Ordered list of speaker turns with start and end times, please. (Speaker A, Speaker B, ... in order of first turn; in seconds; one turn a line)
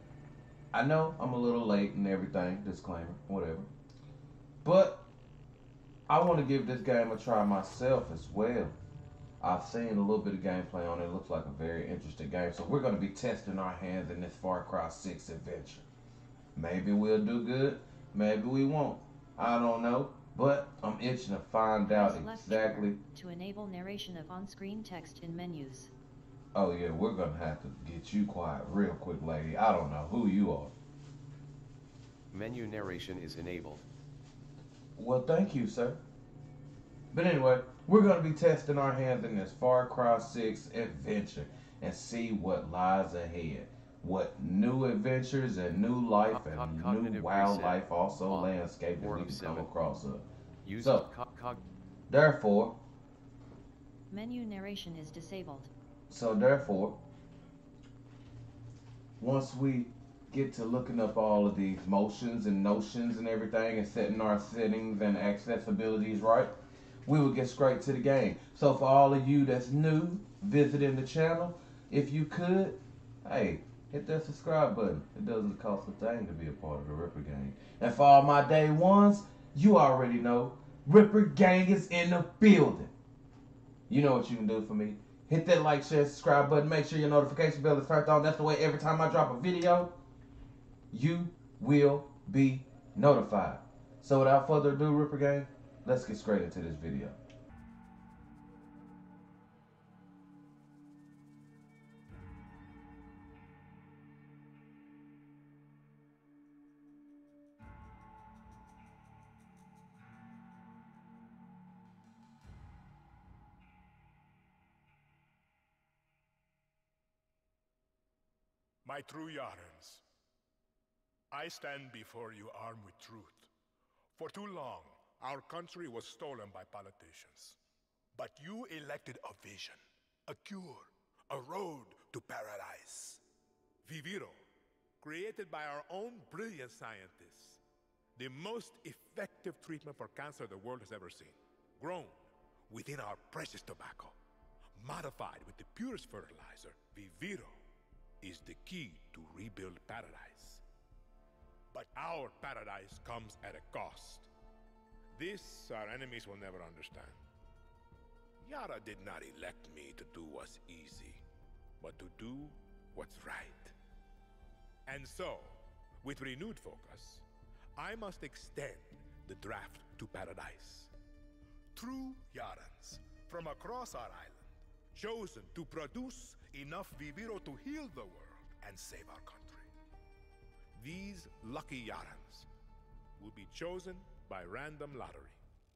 Speaker A: 0.7-3.7
Speaker A: 4.6-5.1
Speaker A: 6.1-8.8
Speaker A: 9.4-15.9
Speaker A: 16.6-23.0
Speaker B: 21.9-25.9
Speaker A: 26.5-30.7
Speaker C: 32.3-33.8
Speaker A: 35.0-36.0
Speaker A: 37.1-50.2
Speaker C: 46.3-49.7
Speaker C: 50.6-51.6
Speaker A: 50.8-51.1
Speaker A: 52.1-52.8
Speaker B: 54.1-55.7
Speaker A: 56.1-57.0
Speaker A: 59.2-82.9
Speaker A: 83.9-90.0
Speaker A: 90.9-97.2
Speaker D: 118.8-120.0
Speaker D: 121.3-123.5
Speaker D: 124.2-127.6
Speaker D: 128.2-133.2
Speaker D: 133.8-134.3
Speaker D: 135.0-137.6
Speaker D: 138.2-144.2
Speaker D: 144.8-147.6
Speaker D: 148.2-150.6
Speaker D: 151.7-154.3
Speaker D: 155.1-157.2
Speaker D: 158.4-161.2
Speaker D: 161.8-163.8
Speaker D: 164.9-167.2
Speaker D: 167.8-170.9
Speaker D: 171.8-179.7
Speaker D: 180.8-182.5
Speaker D: 183.2-185.4